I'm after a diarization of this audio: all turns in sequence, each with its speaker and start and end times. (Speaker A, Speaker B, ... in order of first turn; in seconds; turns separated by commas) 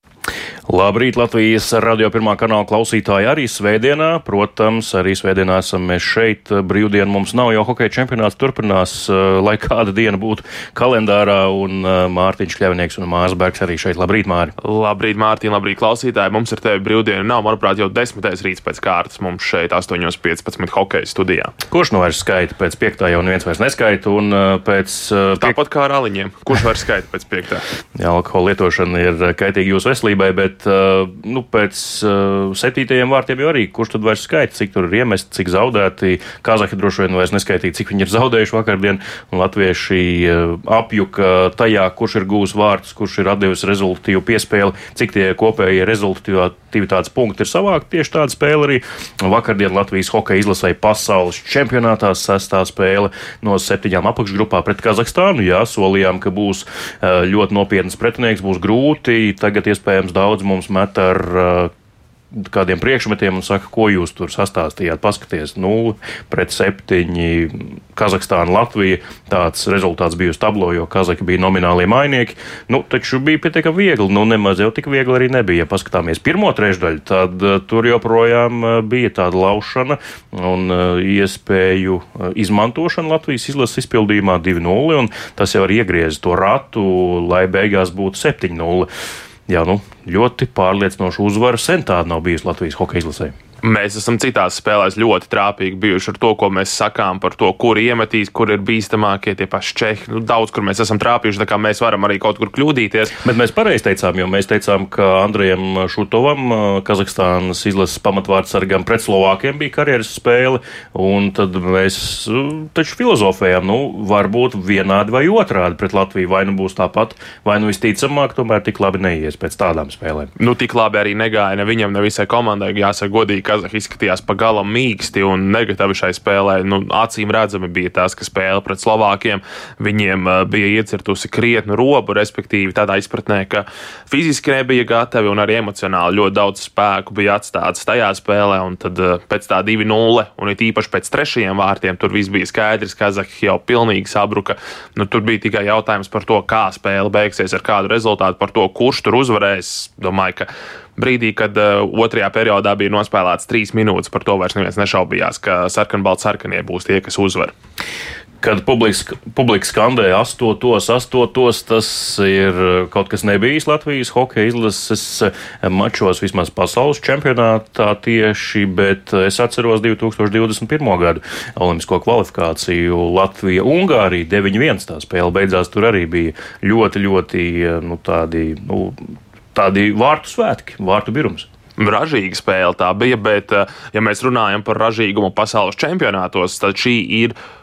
Speaker A: 0.7-14.5, Speaker B: 14.6-21.5, Speaker A: 21.7-25.6, Speaker B: 25.4-27.6, Speaker A: 27.9-61.7, Speaker A: 62.3-88.9, Speaker A: 89.5-93.3, Speaker B: 93.6-103.1, Speaker A: 103.2-120.3, Speaker B: 120.4-157.5, Speaker A: 158.4-179.0, Speaker A: 179.5-181.5, Speaker B: 181.8-187.3